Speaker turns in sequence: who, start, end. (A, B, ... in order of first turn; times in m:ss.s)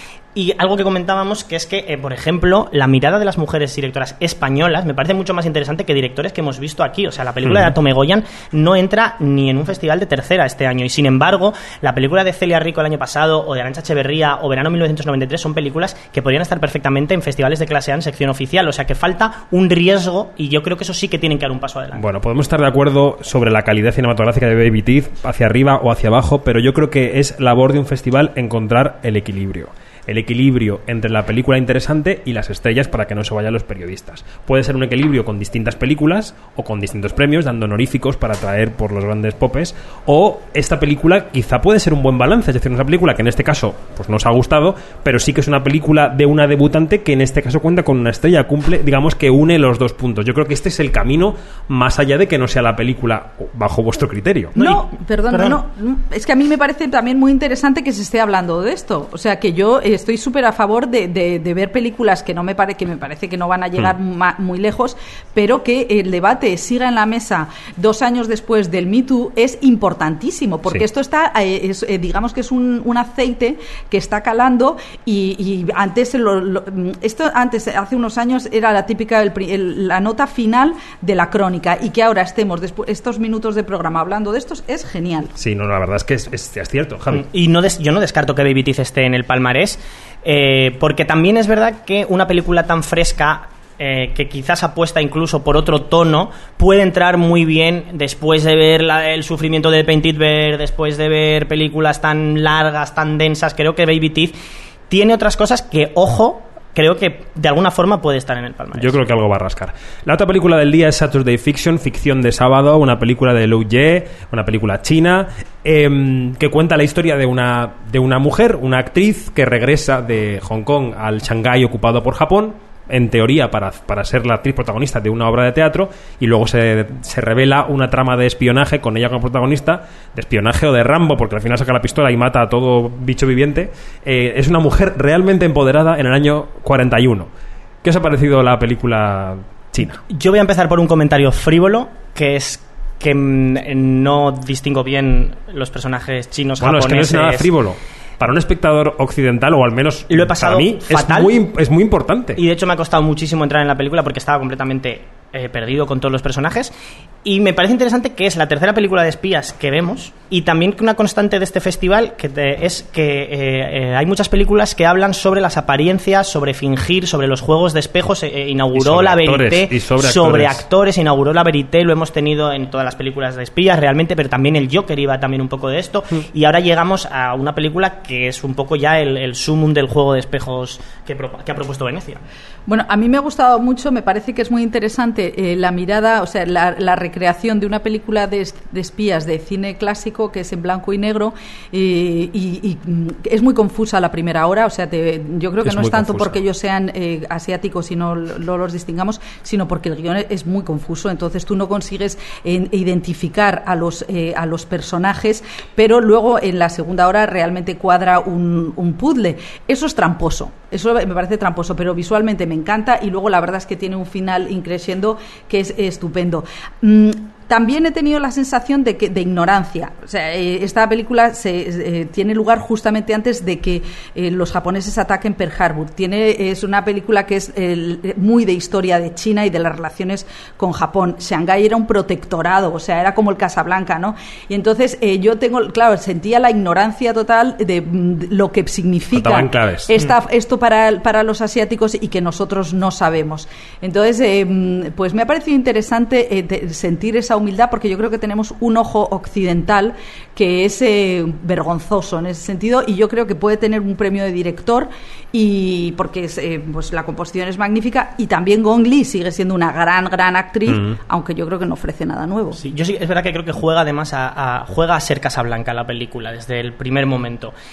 0:00.3-0:22.0 A
0:07.4-0:07.7 B
0:21.9-0:54.5 B
0:54.5-0:55.6 A
0:54.6-1:25.3 C
1:25.4-1:27.2 B
1:27.1-1:44.3 A
1:44.9-1:49.0 A
1:48.7-2:17.3 B
2:17.8-2:20.0 B
2:20.1-2:27.5 A
2:26.6-2:32.4 B
2:30.1-2:31.4 A
2:32.4-2:36.7 A
2:37.2-3:02.2 A
2:48.7-2:50.6 B
3:02.7-4:22.6 C
3:15.6-3:16.4 B
3:59.1-3:59.9 B
4:22.5-4:27.5 A